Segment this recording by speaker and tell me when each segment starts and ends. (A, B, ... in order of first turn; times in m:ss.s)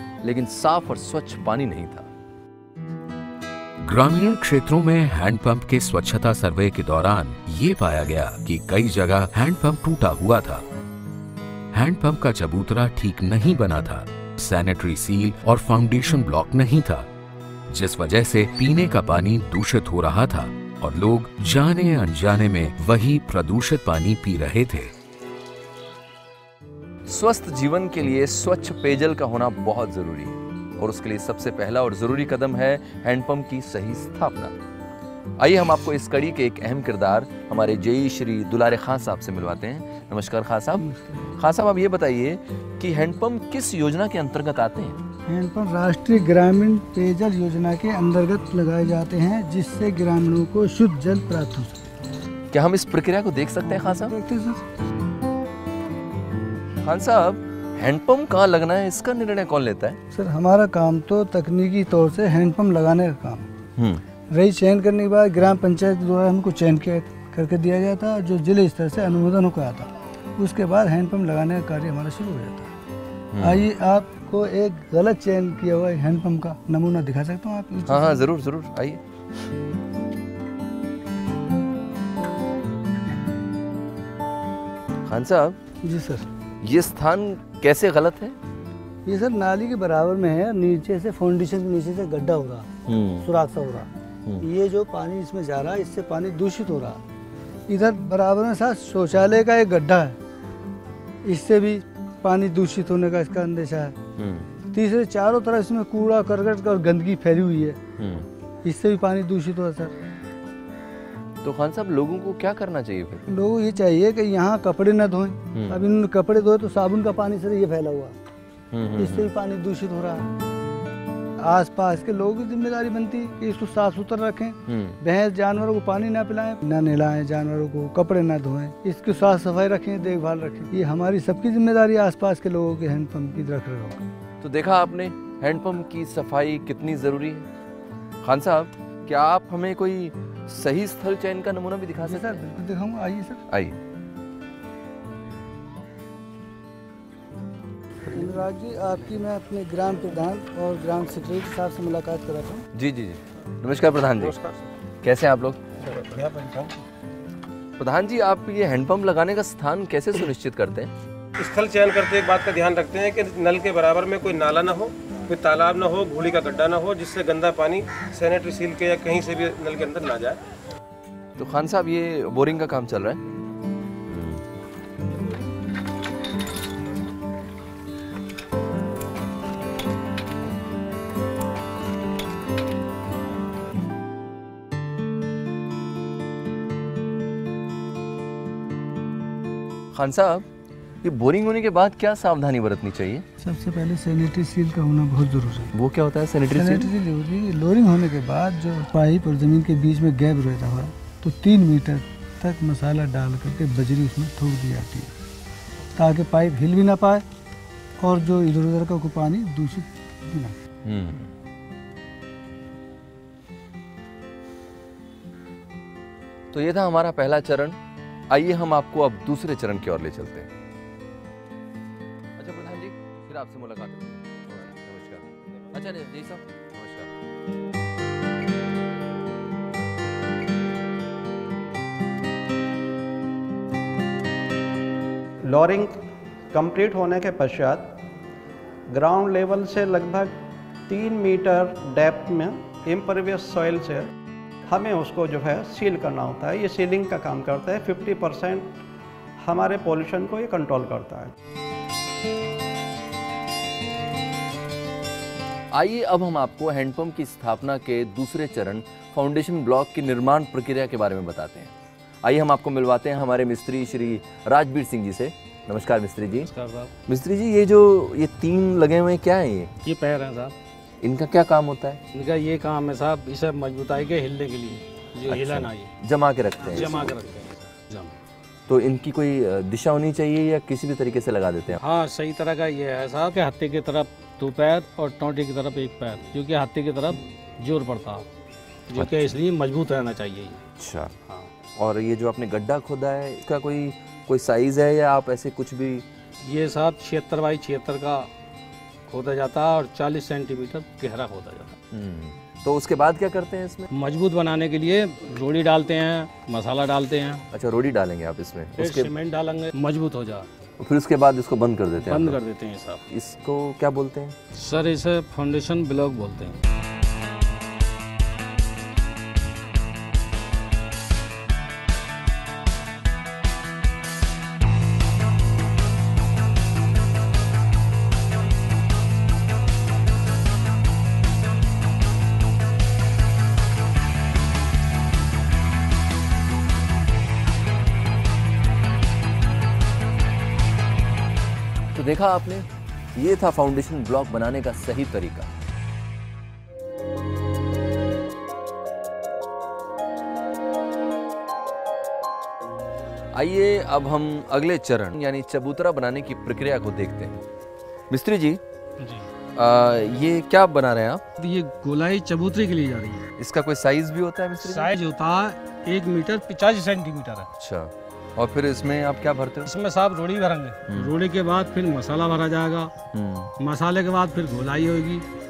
0:00.2-0:02.1 A
0:03.8-0:10.6 B
0:11.7-0:17.1 B
0:17.7-0:24.9 B
0:27.1-0:34.6 A
0:35.4-0:40.8 A
0:40.8-0:41.3 C
0:41.4-0:45.0 A
0:45.3-0:51.8 C
0:52.5-0:54.1 A
0:53.6-0:54.6 C
0:56.8-1:00.0 A
1:00.1-1:03.5 C
1:03.8-1:04.0 A
1:04.3-1:12.7 C
1:13.3-1:13.7 A
1:13.4-1:18.2 C
1:17.9-1:19.0 A
1:25.1-1:25.6 A
1:25.8-1:26.3 C
1:26.6-1:28.4 A
1:29.1-1:32.7 C
1:32.9-1:33.3 A
1:33.2-1:37.0 C
1:37.7-1:40.2 C
1:41.2-1:44.0 C
1:44.2-1:44.5 A
1:44.7-1:47.8 C
1:48.0-1:48.3 A
1:48.6-1:50.0 C
1:51.4-1:53.3 A
1:53.3-1:58.2 C
1:55.5-1:55.8 A
1:58.7-1:59.3 A
1:59.0-2:00.3 C
2:01.4-2:14.0 C
2:04.7-2:05.0 A
2:14.4-2:17.5 A
2:18.2-2:22.4 A
2:22.0-2:23.4 C
2:23.5-2:23.8 A
2:28.1-2:32.6 C
2:32.7-2:34.4 A
2:35.0-2:35.6 A
2:37.8-2:40.9 A
2:47.3-2:47.8 D
2:48.3-2:49.2 D
2:49.7-2:50.4 D
2:51.4-2:53.2 A
2:54.1-2:54.4 A
3:09.9-3:10.5 A
3:11.0-3:13.2 A
3:13.4-3:15.7 C
3:15.7-3:16.9 A
3:16.5-3:25.1 C
3:26.0-3:27.2 C
3:28.0-3:30.6 C
3:30.8-3:31.3 A
3:36.5-3:37.8 A
3:38.3-3:40.5 A
3:42.4-3:47.1 A
3:55.4-3:58.0 E
3:58.9-4:00.3 E
4:00.9-4:04.1 E
4:04.7-4:08.8 E
4:09.4-4:11.3 E
4:15.7-4:26.5 A
4:26.4-4:26.9 F
4:27.1-4:29.7 A
4:29.8-4:30.6 F
4:31.0-4:32.0 A
4:32.1-4:35.9 F
4:35.3-4:37.1 A
4:36.7-4:38.2 F
4:38.7-4:41.8 A
4:41.8-4:48.3 F
4:48.9-4:50.6 F
4:49.0-4:49.3 A
4:50.8-4:51.1 A
4:51.8-4:56.0 A
4:56.4-4:58.3 F
4:59.1-5:01.7 F
5:01.9-5:03.9 A
5:03.9-5:07.4 F
5:07.5-5:09.1 A
5:08.8-5:10.5 F
5:10.8-5:12.4 A
5:12.0-5:13.0 F
5:13.1-5:14.4 A
5:14.5-5:16.6 F
5:41.9-5:45.5 A
5:53.3-5:57.4 A
5:58.1-5:58.6 A
5:59.0-5:59.3 F
5:59.6-6:01.2 A
6:01.4-6:03.3 F
6:03.4-6:04.9 A
6:04.6-6:07.5 F
6:07.6-6:09.7 A
6:09.6-6:12.9 F
6:10.9-6:11.1 A
6:13.1-6:13.5 A
6:13.6-6:15.3 F